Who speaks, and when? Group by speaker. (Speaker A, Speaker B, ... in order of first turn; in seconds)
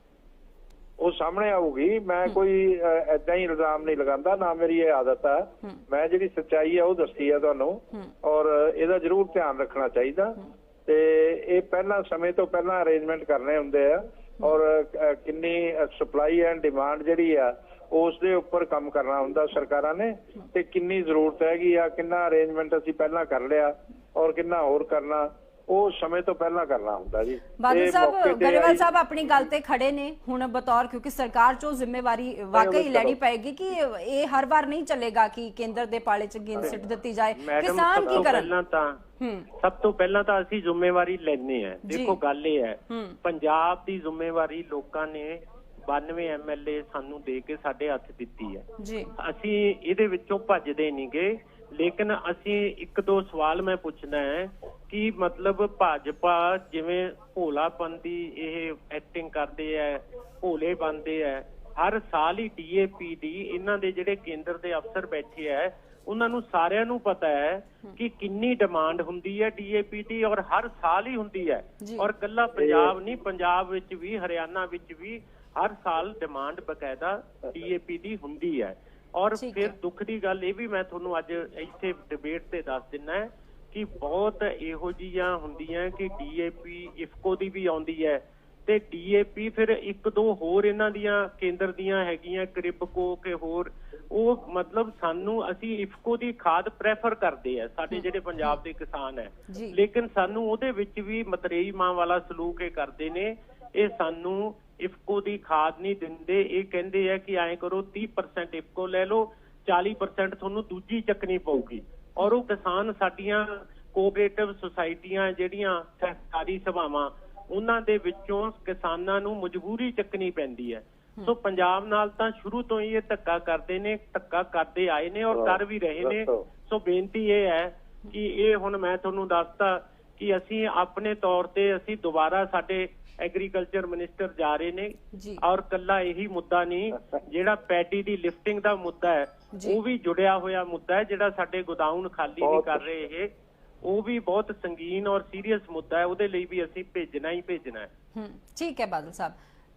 Speaker A: 1.0-28.8, 32.5-33.2, 72.6-72.9, 125.3-126.5, 142.4-142.8
Speaker B: 27.6-38.5, 39.2-39.5, 41.9-42.2, 42.9-43.2, 48.8-49.1, 71.8-72.1, 79.3-79.7, 97.9-98.6, 99.5-99.8, 135.1-135.4, 139.5-139.8, 148.1-149.3
Speaker C: 37.3-39.0, 39.6-143.3, 143.8-147.9